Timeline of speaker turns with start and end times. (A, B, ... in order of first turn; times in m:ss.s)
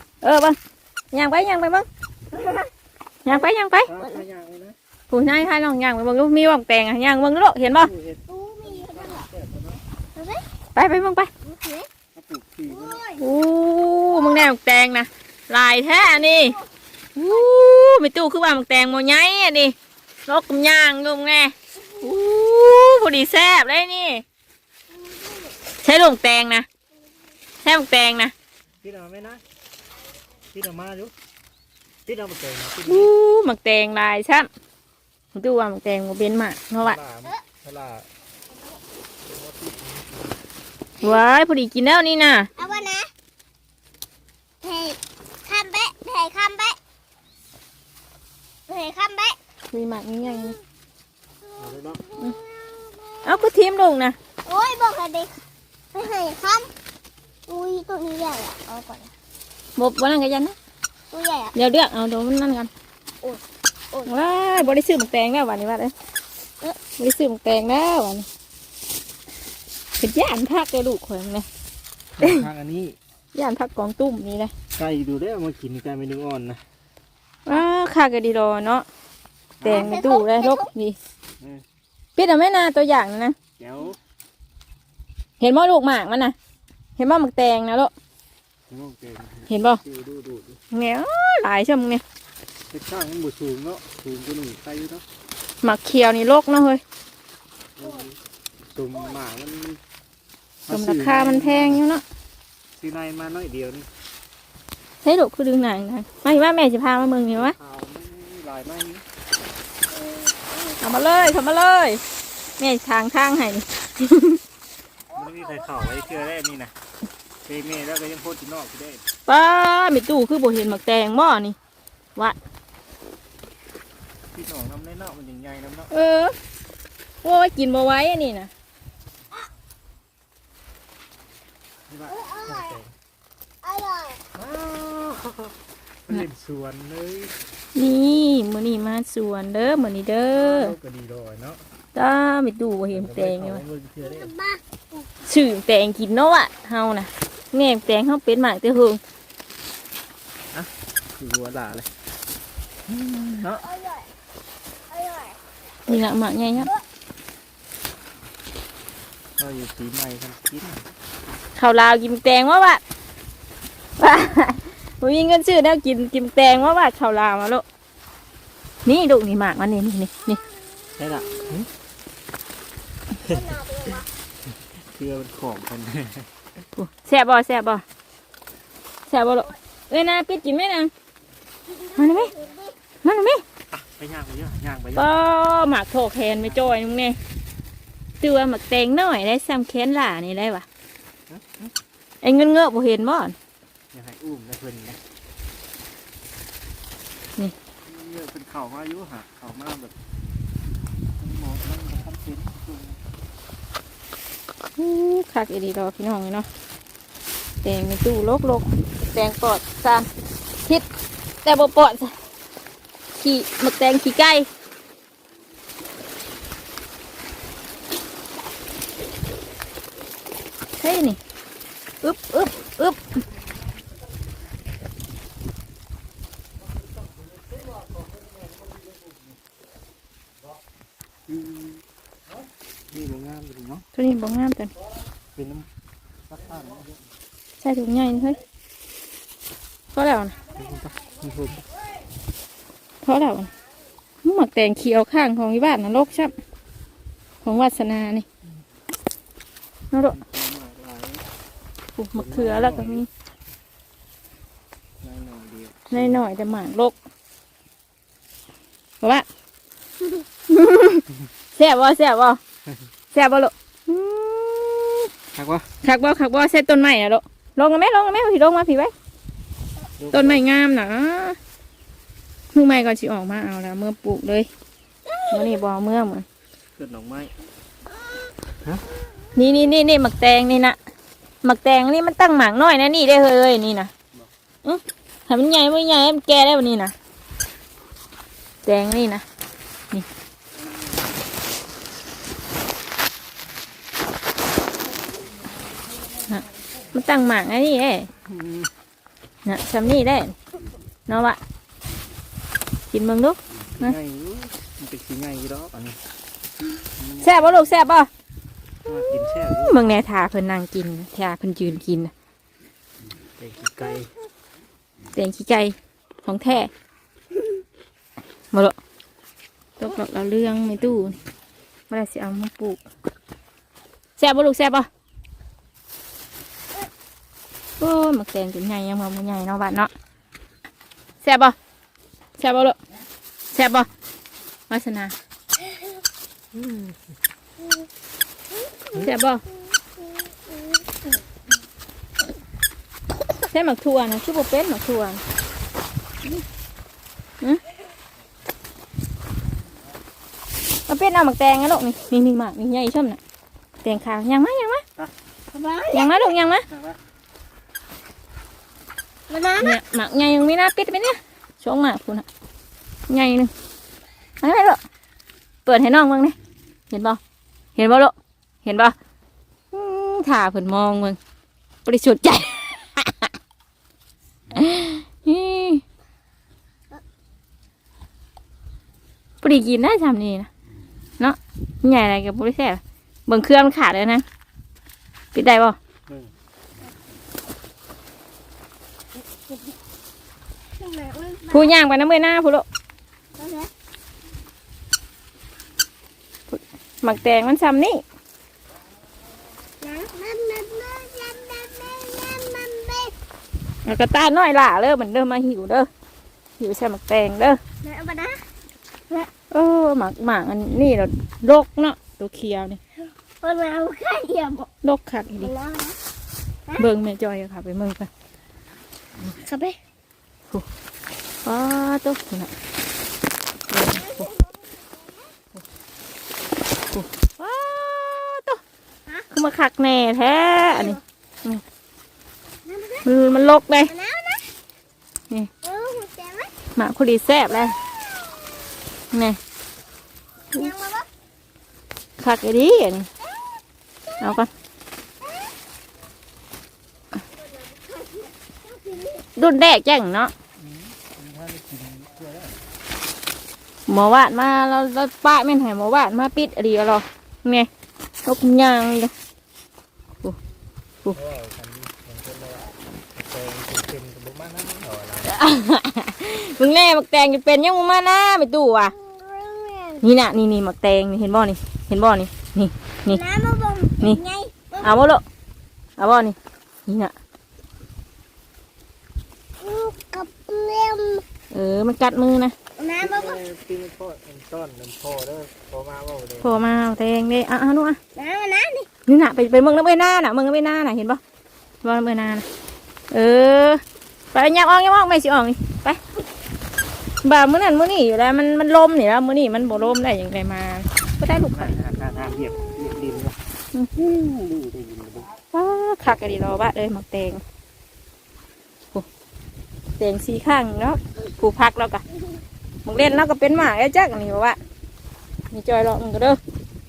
0:00.2-0:00.6 A
0:01.1-0:01.9 A
0:02.3-0:02.7 B
0:03.2-0:03.9 A
0:03.8-0:04.8 C
0:04.0-0:04.2 B
0:05.1-0:07.9 A
0:07.8-0:09.8 C
0:08.3-0:09.2 B
0:10.1-0:10.4 B
0:10.7-0:11.3 A
0:11.4-0:11.9 B
0:12.1-0:13.0 C
0:12.7-0:13.2 B
0:13.2-0:16.6 A
0:14.1-0:14.5 B
0:16.2-0:16.6 B
0:17.1-0:19.8 A
0:17.2-0:17.6 B
0:20.3-0:24.2 A
0:24.9-0:25.6 B
0:25.8-0:26.6 A
0:27.6-0:28.3 A
0:28.8-0:29.4 C
0:30.5-0:31.1 C
0:32.0-0:33.1 C
0:32.9-0:34.5 A
0:35.3-0:37.0 A
0:36.8-0:38.1 C
0:39.2-0:40.4 C
0:41.0-0:42.5 A
0:42.6-0:43.1 B
0:44.6-0:46.8 B
0:48.7-0:49.4 B
0:49.7-0:50.6 A
0:51.4-0:53.4 B
0:51.6-0:52.0 C
0:53.2-0:54.2 A
0:54.4-0:55.3 B
0:55.9-0:56.7 B
0:57.5-0:59.1 B
0:59.8-1:00.6 A
1:01.1-1:01.5 B
1:01.5-1:02.7 A
1:03.2-1:04.7 B
1:04.0-1:05.9 A
1:07.0-1:08.3 A
1:10.0-1:11.5 A
1:12.2-1:13.0 C
1:13.3-1:14.5 A
1:14.8-1:16.6 C
1:17.4-1:18.8 A
1:19.6-1:20.0 C
1:19.6-1:21.0 A
1:19.6-1:20.7 B
1:22.2-1:23.4 A
1:23.6-1:24.0 C
1:25.4-1:26.4 A
1:27.0-1:27.9 A
1:28.7-1:30.6 C
1:29.5-1:29.8 A
1:30.7-1:32.0 A
1:32.7-1:35.0 C
1:35.6-1:36.8 A
1:37.8-1:39.8 C
1:40.7-1:41.8 C
1:40.7-1:42.0 A
1:42.7-1:43.9 C
1:45.0-1:47.5 A
1:47.3-1:49.0 C
1:49.9-1:50.8 B
1:50.8-1:52.0 A
1:52.6-1:54.4 A
1:55.1-1:56.3 B
1:55.1-1:56.7 C
1:57.4-1:59.0 C
1:59.3-2:01.6 A
2:04.3-2:05.9 C
2:05.9-2:06.3 A
2:07.2-2:08.5 A
2:11.9-2:12.9 C
2:12.1-2:12.8 B
2:13.6-2:14.2 B
2:14.3-2:15.5 C
2:16.0-2:17.3 C
2:17.7-2:20.7 A
2:20.3-2:21.6 C
2:21.9-2:23.6 A
2:22.9-2:24.3 C
2:24.0-2:25.0 B
2:25.3-2:29.0 A
2:30.5-2:31.9 C
2:32.9-2:33.6 A
2:33.6-2:34.1 B
2:34.9-2:35.4 B
2:35.8-2:36.7 A
2:39.4-2:40.8 C
2:41.6-2:42.8 A
2:44.0-2:47.6 A
2:48.8-2:50.4 A
2:50.3-2:51.6 B
2:51.0-2:51.7 C
2:53.2-2:54.1 B
2:54.7-2:56.3 C
2:56.8-2:57.8 A
2:59.1-3:00.9 A
3:01.6-3:02.7 B
3:02.0-3:02.3 A
3:03.0-3:03.4 A
3:03.7-3:05.1 C
3:05.0-3:07.2 A
3:06.4-3:06.8 C
3:08.2-3:10.6 A
3:11.3-3:11.7 C
3:12.2-3:13.4 A
3:13.9-3:15.0 C
3:17.8-3:19.9 C
3:21.2-3:23.0 C
3:24.8-3:26.5 A
3:27.6-3:30.1 A
3:31.4-3:32.1 A
3:33.2-3:34.5 A
3:40.8-3:41.2 A
3:42.0-3:43.2 A
3:51.3-3:51.8 C
3:52.9-3:53.8 C
3:53.9-3:54.7 A
3:55.3-3:55.7 C
3:56.3-3:57.0 C
3:57.6-3:58.4 A
3:59.9-4:00.4 A
4:00.5-4:01.6 C
4:03.0-4:03.5 A
4:04.2-4:06.3 A
4:07.4-4:08.2 A
4:10.1-4:11.2 C
4:12.0-4:13.1 A
4:12.1-4:13.0 C
4:15.0-4:16.2 C
4:15.9-4:16.9 A
4:19.0-4:19.2 A
4:20.5-4:21.0 A
4:21.6-4:22.4 A
4:23.1-4:25.1 A
4:25.3-4:25.7 C
4:25.8-4:28.9 A
4:30.0-4:30.4 C
4:30.1-4:31.4 A
4:32.5-4:34.5 A
4:35.1-4:35.5 B
4:35.3-4:36.2 A
4:36.8-4:37.3 C
4:39.4-4:40.8 A
4:41.4-4:43.9 A
4:44.6-4:46.9 A
4:48.6-4:49.2 A
4:56.3-4:58.1 A
4:58.2-4:58.7 C
4:59.4-5:00.4 A
5:01.1-5:01.4 A
5:02.9-5:04.0 A
5:03.8-5:06.0 C
5:07.0-5:07.7 C
5:07.2-5:08.1 A
5:08.8-5:09.8 C
5:09.6-5:12.1 A
5:13.4-5:14.1 C
5:15.1-5:16.7 A
5:19.8-5:21.2 A
5:21.9-5:22.8 A
5:24.2-5:24.9 A
5:27.8-5:29.9 A
5:31.2-5:31.6 A
5:32.4-5:32.8 A
5:33.5-5:33.9 A
5:34.7-5:35.1 A
5:36.5-5:37.0 C
5:39.0-5:39.4 A
5:43.5-5:45.2 A
5:50.9-5:53.2 A
5:53.8-5:54.8 A
5:55.5-5:56.3 B
5:55.9-5:56.6 A
5:56.7-5:57.0 C
5:59.3-5:59.7 B
5:59.6-6:02.2 A
6:03.1-6:03.5 A
6:04.4-6:04.8 A
6:05.6-6:06.3 A
6:06.9-6:07.2 A
6:07.8-6:08.1 A
6:08.6-6:08.9 A
6:09.7-6:11.2 A
6:11.8-6:13.3 A
6:14.5-6:15.8 A
6:19.4-6:20.5 A
6:21.2-6:24.2 A
6:25.3-6:25.8 A
6:26.1-6:26.3 C
6:30.8-6:31.7 B
6:31.5-6:32.6 A
6:33.4-6:33.7 B
6:36.5-6:38.0 A
6:39.8-6:43.1 B
6:43.8-6:45.9 A
6:46.6-6:47.6 A
6:47.8-6:48.4 B
6:49.5-6:52.8 A
6:53.4-6:54.7 B
6:54.8-6:55.5 A
6:55.4-6:56.0 B
6:56.8-6:58.1 A
6:59.2-6:59.8 B
7:01.4-7:02.5 A
7:03.7-7:04.3 A
7:03.9-7:05.3 B
7:06.9-7:08.6 A
7:09.3-7:11.6 A
7:10.6-7:11.0 B
7:12.6-7:13.1 B
7:13.0-7:13.9 A
7:13.8-7:14.5 B
7:15.6-7:16.5 B
7:16.8-7:17.8 A
7:18.0-7:18.7 B
7:19.1-7:19.4 A
7:20.5-7:21.1 B
7:22.2-7:23.1 A
7:23.2-7:23.5 B
7:24.2-7:24.5 A
7:27.6-7:29.3 B
7:29.4-7:30.3 A
7:30.6-7:32.6 C
7:33.9-7:37.7 A
7:38.2-7:39.1 A
7:41.1-7:45.4 C
7:45.2-7:48.9 A
7:49.0-7:50.0 B
7:50.0-7:53.2 A
7:53.1-7:55.1 B
7:54.8-7:55.2 A
7:56.0-7:56.4 A
7:56.9-7:57.1 A
7:59.6-8:01.2 B
8:01.5-8:02.5 A
8:02.8-8:03.4 B
8:03.0-8:06.6 C
8:06.4-8:08.0 A
8:08.1-8:08.9 B
8:09.0-8:11.2 A
8:11.8-8:12.4 A
8:13.1-8:13.8 A
8:14.3-8:16.0 A
8:17.2-8:21.7 A
8:21.5-8:23.4 C
8:23.9-8:25.3 C
8:25.5-8:27.4 A
8:30.0-8:32.0 A
8:32.8-8:34.6 A
8:35.5-8:36.4 A